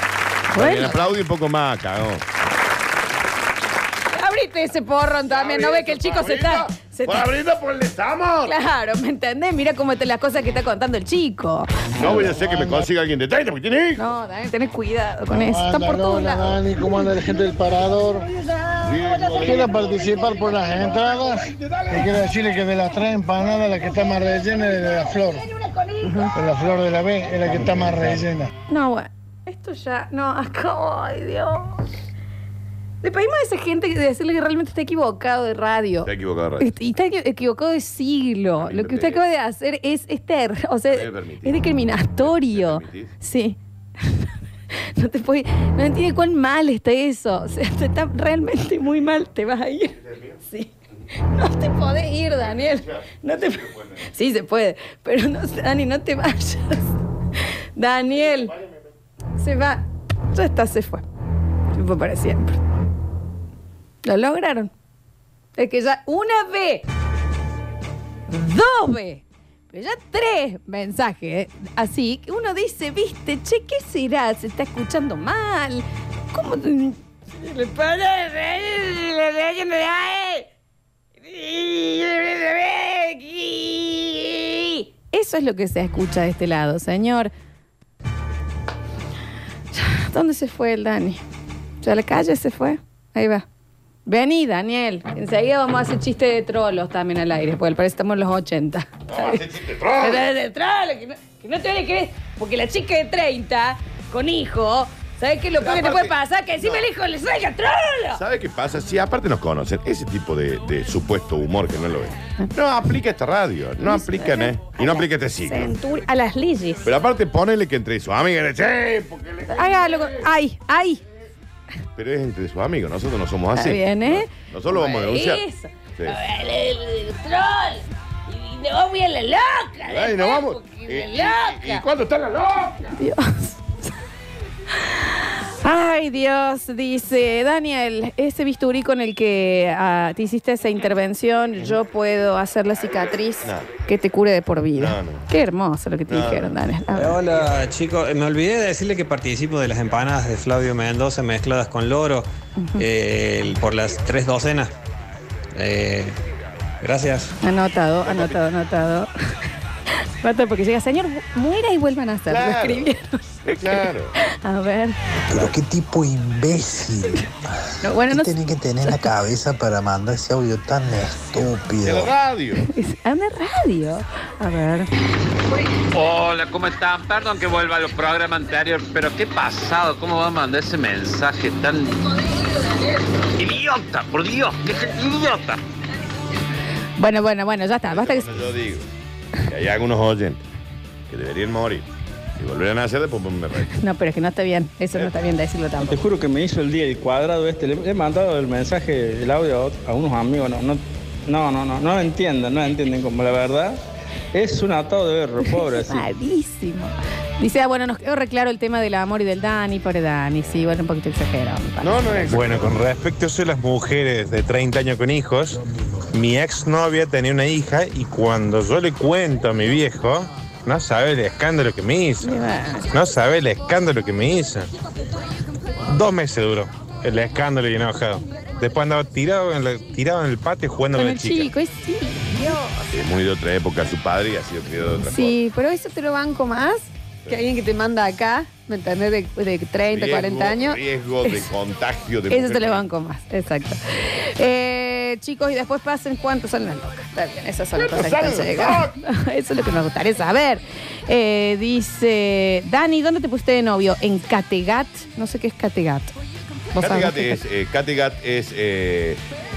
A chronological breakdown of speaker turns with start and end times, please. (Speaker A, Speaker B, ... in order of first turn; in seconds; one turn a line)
Speaker A: 0.5-1.1
Speaker B: 0.5-2.2
Speaker A: 4.1-7.3
Speaker B: 5.3-8.5
Speaker A: 8.4-12.2
Speaker B: 12.0-14.0
Speaker C: 12.4-12.8
Speaker A: 14.0-16.5
Speaker C: 15.4-18.3
Speaker B: 18.8-20.2
Speaker C: 19.4-25.6
Speaker A: 26.0-26.3
Speaker C: 26.3-28.5
Speaker A: 28.7-31.9
Speaker A: 33.0-36.1
Speaker B: 36.0-36.7
Speaker A: 36.6-43.6
Speaker B: 38.6-39.2
Speaker B: 40.9-43.1
Speaker A: 45.0-50.0
Speaker B: 50.0-50.4
Speaker A: 51.4-56.9
Speaker B: 52.4-54.0
Speaker A: 57.8-58.5
Speaker A: 59.4-61.0
Speaker A: 61.8-62.6
Speaker A: 64.0-64.7
Speaker A: 65.6-66.8
Speaker A: 68.3-80.5
Speaker A: 81.2-87.3
Speaker A: 89.7-91.2
Speaker A: 91.8-93.5
Speaker A: 94.1-99.4
Speaker B: 99.1-100.3
Speaker A: 100.0-108.2
Speaker B: 105.6-106.9
Speaker B: 108.2-115.7
Speaker A: 113.8-116.9
Speaker B: 116.8-120.3
Speaker A: 119.5-121.0
Speaker B: 122.0-125.4
Speaker A: 123.6-131.8
Speaker B: 129.9-132.9
Speaker A: 132.9-133.6
Speaker A: 135.6-147.2
Speaker B: 143.4-143.7
Speaker B: 144.8-145.3
Speaker B: 146.1-146.5
Speaker D: 146.9-154.7
Speaker A: 152.6-152.8
Speaker D: 155.6-156.2
Speaker D: 156.8-157.3
Speaker A: 157.4-159.1
Speaker B: 158.1-158.3
Speaker A: 160.2-165.0
Speaker B: 162.3-162.9
Speaker B: 163.6-164.2
Speaker E: 165.3-167.3
Speaker A: 167.8-169.0
Speaker E: 168.1-172.1
Speaker B: 171.4-172.7
Speaker A: 172.7-174.9
Speaker F: 175.9-182.0
Speaker F: 183.4-185.6
Speaker A: 187.0-188.5
Speaker B: 187.9-188.9
Speaker B: 189.5-190.4
Speaker B: 191.1-191.9
Speaker B: 192.4-193.7
Speaker A: 193.7-196.0
Speaker G: 195.8-203.8
Speaker G: 204.3-206.1
Speaker A: 205.4-211.9
Speaker B: 211.8-212.8
Speaker H: 212.3-215.6
Speaker H: 216.1-222.4
Speaker A: 222.2-222.9
Speaker H: 222.9-224.7
Speaker H: 225.9-231.5
Speaker A: 230.9-232.7
Speaker B: 232.9-235.4
Speaker A: 235.1-241.4
Speaker B: 239.9-242.8
Speaker A: 242.3-256.1
Speaker B: 247.8-248.9
Speaker A: 256.8-257.4
Speaker B: 256.8-259.2